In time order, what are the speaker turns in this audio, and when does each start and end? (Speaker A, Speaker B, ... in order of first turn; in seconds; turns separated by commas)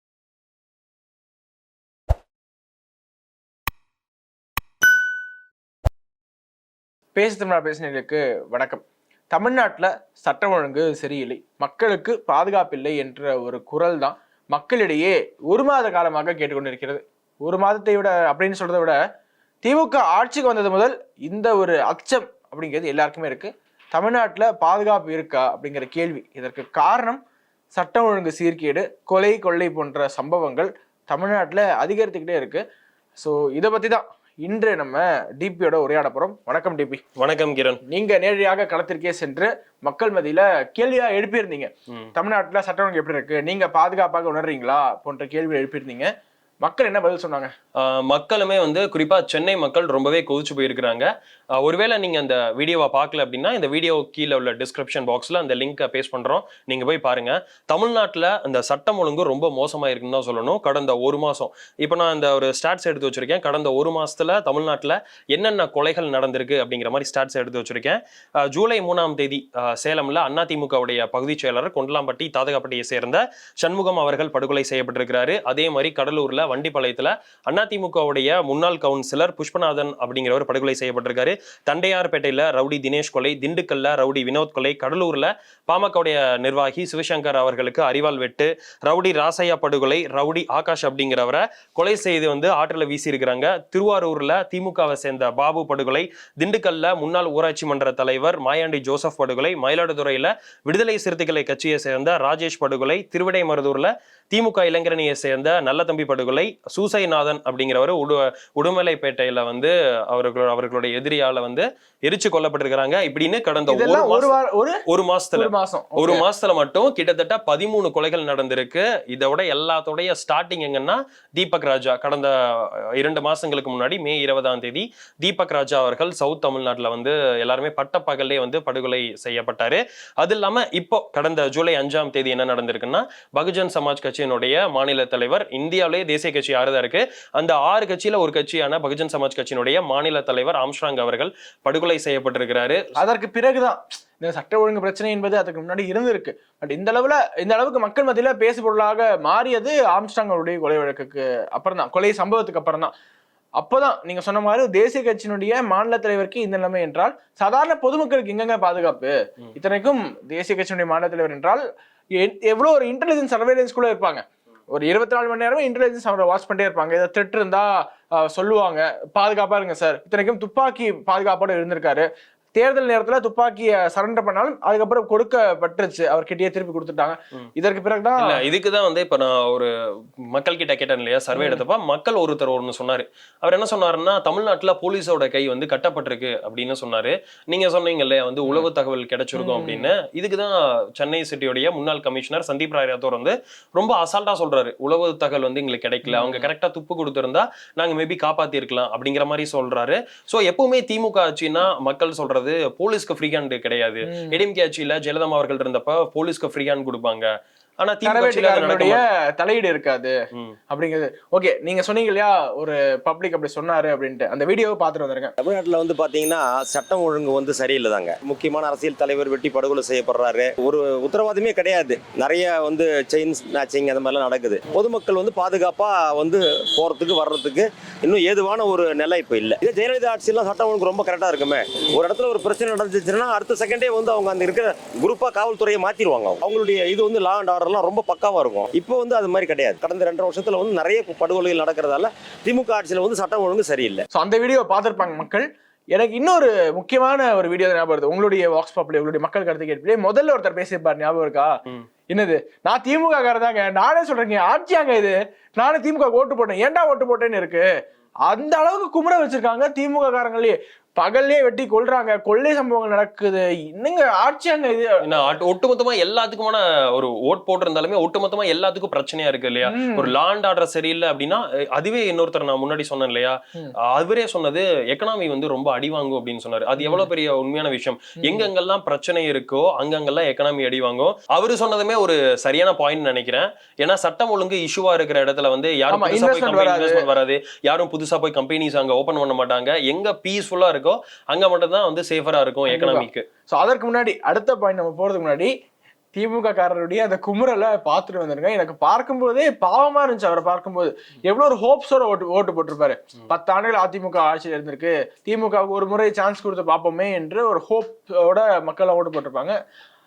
Speaker A: 7.2-19.0, Speaker A: 19.6-27.2, Speaker A: 27.7-32.6, Speaker A: 33.2-37.0, Speaker B: 37.2-37.8, Speaker A: 37.9-46.1, Speaker A: 46.6-47.5, Speaker B: 47.8-114.4, Speaker A: 113.7-114.8, Speaker B: 114.9-142.8, Speaker A: 115.3-116.2, Speaker A: 143.0-152.9, Speaker A: 153.6-161.6, Speaker A: 162.2-178.4, Speaker B: 178.2-179.7, Speaker B: 180.3-207.3, Speaker A: 181.3-181.6, Speaker A: 189.3-189.9, Speaker A: 196.1-196.5, Speaker A: 204.1-204.4, Speaker B: 207.8-209.0, Speaker A: 208.0-210.2, Speaker A: 210.7-215.3, Speaker C: 215.4-244.0, Speaker A: 244.1-251.5, Speaker A: 252.1-257.6, Speaker A: 258.3-265.0, Speaker B: 265.0-293.2, Speaker A: 269.7-270.1, Speaker A: 276.8-277.1, Speaker A: 278.2-278.5, Speaker A: 285.9-287.0, Speaker A: 292.7-295.5, Speaker A: 296.1-309.6